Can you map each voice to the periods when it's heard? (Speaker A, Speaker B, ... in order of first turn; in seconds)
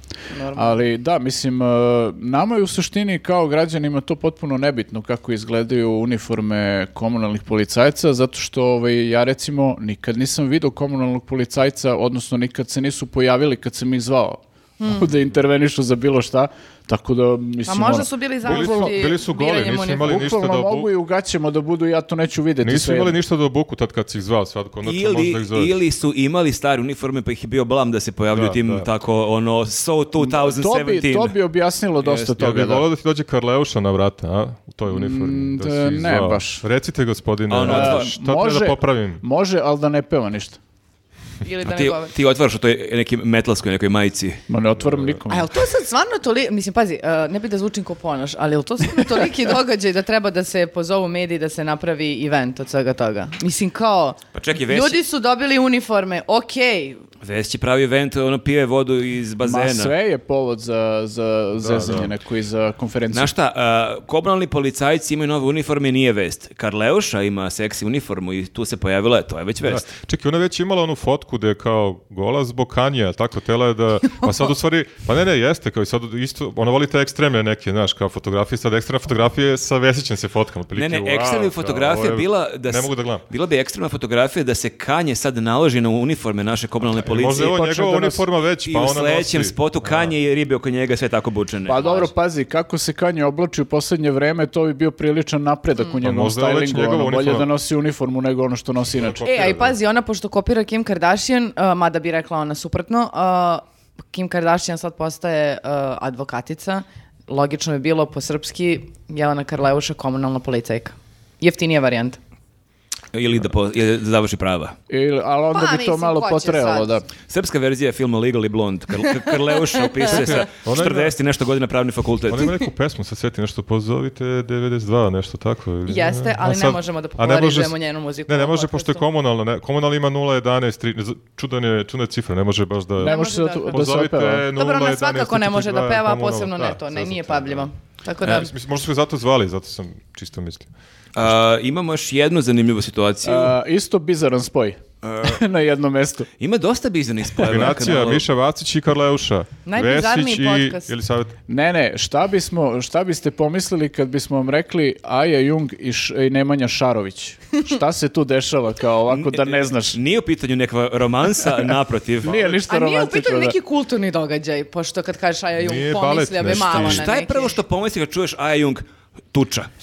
Speaker A: 0.3-0.8, 14.8-15.1, 17.6-20.3, 41.4-42.1, 45.3-57.0, 99.2-112.2, 115.5-117.0, 125.9-129.0, 133.0-133.9, 134.6-138.5, 149.7-150.9, 162.7-167.6
Speaker B: 0.5-19.1, 20.0-23.2, 30.2-32.9, 34.9-36.6, 37.6-40.6, 44.5-45.5, 59.4-63.3, 87.3-88.2, 91.7-99.3, 114.9-117.1, 133.0-134.5, 143.2-146.3, 151.5-160.0, 162.2-163.6
Speaker C: 18.5-20.9, 22.6-25.8, 28.3-28.9, 32.1-39.2, 44.7-45.2, 61.6-62.1, 69.6-83.2, 87.0-90.2, 96.0-97.5, 99.0-99.8, 120.1-121.2, 122.3-137.7, 138.2-140.7, 147.4-151.3, 165.6-167.1
Speaker D: 24.8-31.4, 37.5-38.1, 41.6-44.4, 54.3-55.0, 57.2-59.9, 63.1-69.9, 80.8-87.6, 88.7-92.1, 113.1-114.8, 117.3-122.5, 141.2-143.6, 145.0-145.4, 146.4-148.2, 159.1-162.5, 166.6-169.7